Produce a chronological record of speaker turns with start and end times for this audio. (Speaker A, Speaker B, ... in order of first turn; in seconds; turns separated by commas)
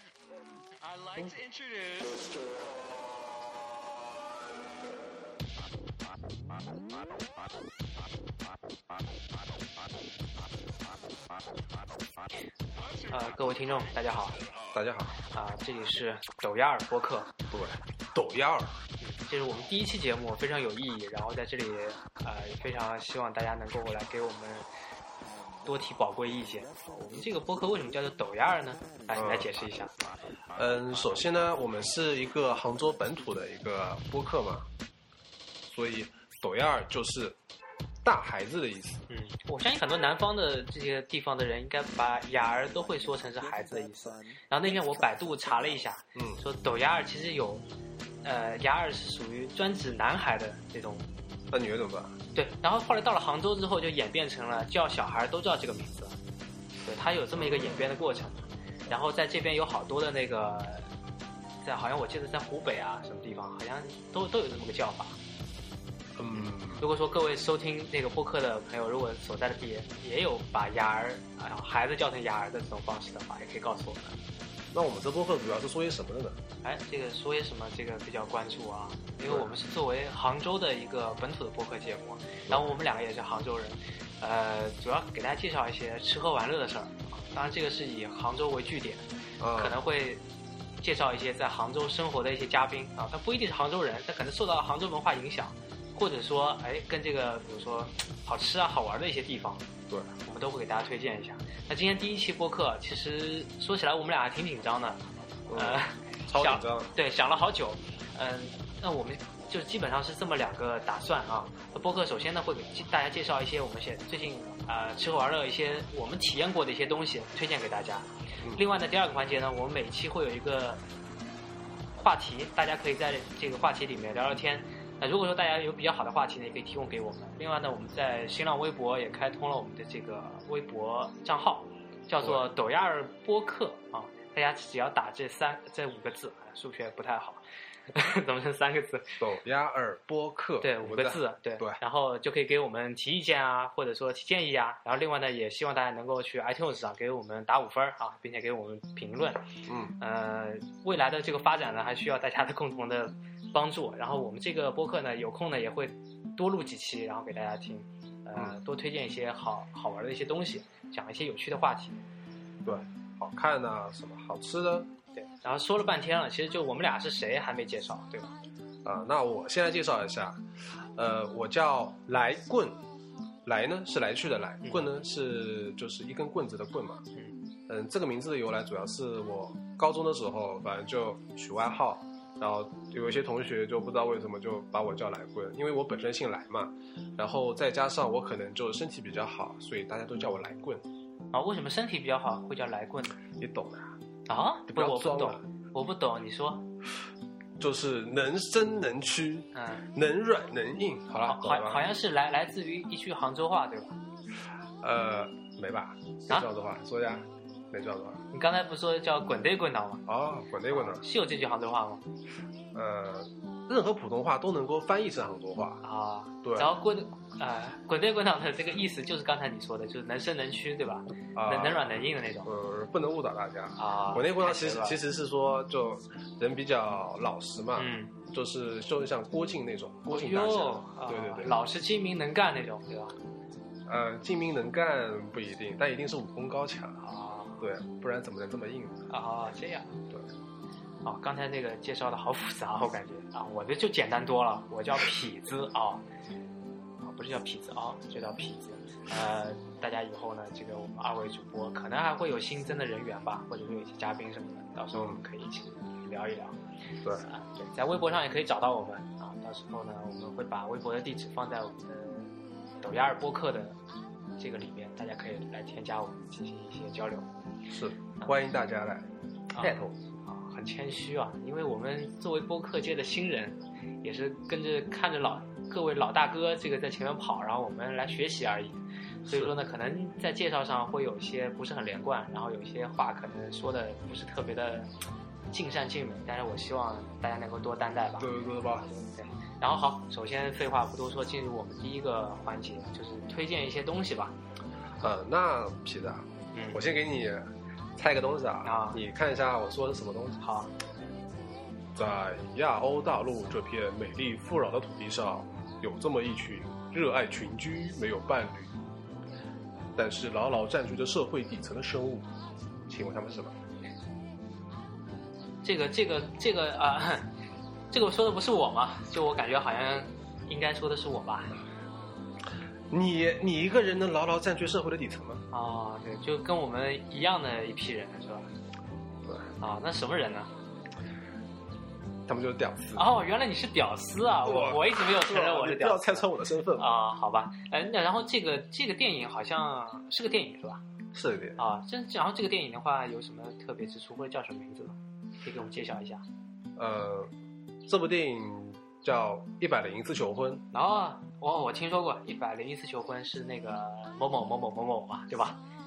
Speaker A: 0.8-2.4, Speaker A: 12.8-13.7, Speaker B: 13.1-14.3, Speaker C: 14.7-15.2, Speaker B: 15.3-17.3, Speaker C: 17.5-18.8, Speaker B: 19.0-24.7, Speaker B: 25.6-29.9, Speaker C: 29.1-29.5, Speaker C: 30.5-34.6, Speaker B: 30.9-31.2, Speaker C: 35.7-37.4, Speaker C: 38.0-39.0, Speaker B: 39.1-47.6, Speaker C: 46.1-46.4, Speaker B: 48.2-51.1, Speaker C: 51.5-52.2, Speaker B: 52.3-56.1, Speaker B: 56.8-60.9, Speaker C: 57.4-57.8, Speaker B: 61.6-65.2, Speaker C: 66.2-66.8, Speaker B: 66.8-74.2, Speaker C: 74.7-76.4, Speaker B: 76.6-90.2, Speaker C: 79.2-79.5, Speaker C: 82.5-82.7, Speaker C: 89.4-89.8, Speaker B: 90.8-99.7, Speaker B: 100.2-105.0, Speaker C: 105.5-106.9, Speaker B: 105.5-120.8, Speaker B: 122.0-139.2, Speaker C: 139.2-141.8, Speaker B: 140.6-149.4, Speaker C: 149.7-149.9, Speaker B: 150.0-162.0, Speaker C: 162.6-164.9, Speaker B: 165.2-168.3, Speaker C: 168.8-170.4, Speaker C: 170.9-172.8, Speaker C: 173.4-177.1, Speaker C: 177.7-190.8, Speaker B: 191.3-193.2, Speaker C: 193.4-193.9, Speaker B: 194.3-196.6, Speaker C: 194.7-195.4, Speaker C: 197.6-201.8, Speaker B: 199.5-199.9, Speaker B: 201.2-204.0, Speaker C: 204.8-208.2, Speaker B: 208.3-210.0, Speaker C: 210.1-211.0, Speaker B: 210.7-212.0, Speaker C: 212.7-215.8, Speaker B: 215.8-222.5, Speaker C: 216.4-216.7, Speaker C: 221.3-231.6, Speaker B: 223.8-225.0, Speaker B: 227.8-228.1, Speaker B: 230.1-233.1, Speaker C: 233.9-237.0, Speaker B: 237.0-237.6, Speaker C: 237.6-239.1, Speaker B: 239.1-239.9, Speaker B: 241.0-246.0, Speaker B: 247.0-256.6, Speaker C: 254.9-255.2, Speaker B: 257.2-262.3, Speaker B: 262.8-263.8, Speaker B: 264.4-267.3, Speaker C: 267.7-269.1, Speaker B: 269.5-284.9, Speaker C: 269.6-269.9, Speaker C: 279.3-279.5, Speaker B: 285.5-288.3, Speaker C: 288.2-289.1, Speaker B: 289.1-294.3, Speaker C: 295.0-300.4, Speaker B: 296.5-296.8, Speaker B: 298.6-299.0, Speaker B: 300.4-300.7, Speaker C: 301.9-308.7, Speaker C: 309.9-312.2, Speaker C: 312.9-313.5, Speaker B: 315.6-317.3, Speaker B: 317.9-321.6, Speaker C: 322.9-325.4, Speaker B: 325.5-328.5, Speaker C: 329.2-329.5, Speaker B: 329.6-330.5, Speaker C: 332.3-333.1, Speaker B: 332.9-340.8, Speaker C: 334.4-336.9, Speaker C: 341.1-341.6, Speaker B: 341.6-346.2, Speaker C: 346.8-347.3, Speaker C: 347.9-350.6, Speaker B: 350.7-355.6